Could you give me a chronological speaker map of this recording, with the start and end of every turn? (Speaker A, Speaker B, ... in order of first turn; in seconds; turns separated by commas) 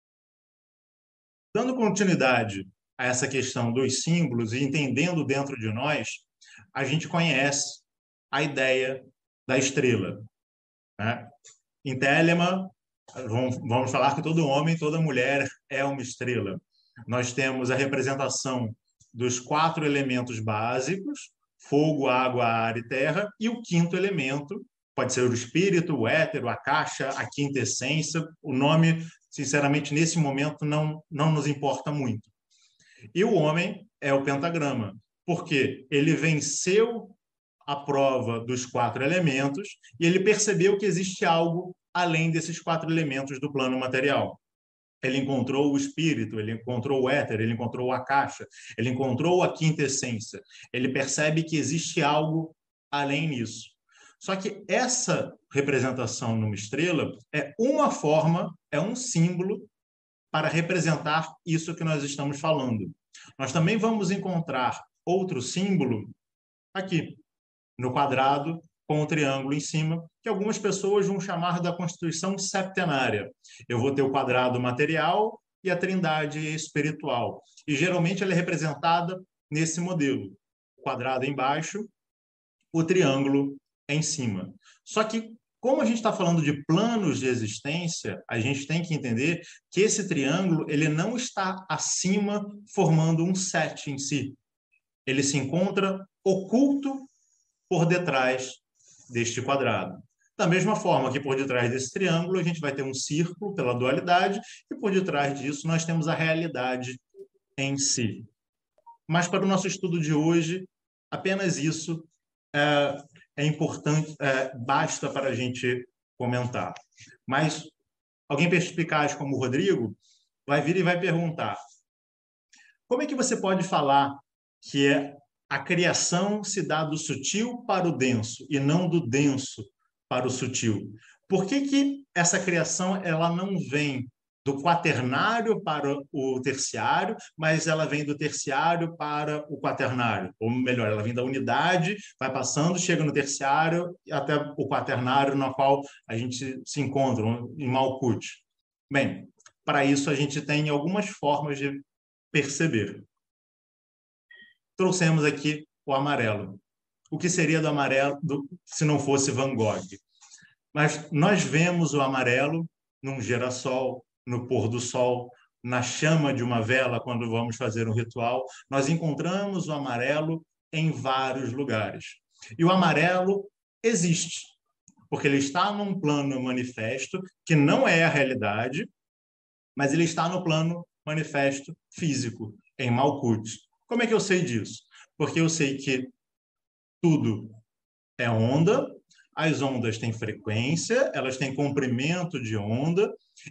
Speaker A: 1.5-10.3, Speaker A: 11.0-11.3, Speaker A: 11.8-32.3, Speaker A: 33.1-44.4, Speaker A: 45.0-59.7, Speaker A: 60.3-66.1, Speaker A: 66.7-67.2, Speaker A: 67.8-81.9, Speaker A: 82.7-94.4, Speaker A: 95.1-97.1, Speaker A: 97.7-107.0, Speaker A: 107.6-108.3, Speaker A: 109.1-117.7, Speaker A: 118.3-121.6, Speaker A: 122.9-153.1, Speaker A: 154.8-160.0, Speaker A: 160.7-174.6, Speaker A: 175.1-178.9, Speaker A: 179.8-186.1, Speaker A: 187.0-187.6, Speaker A: 188.2-193.2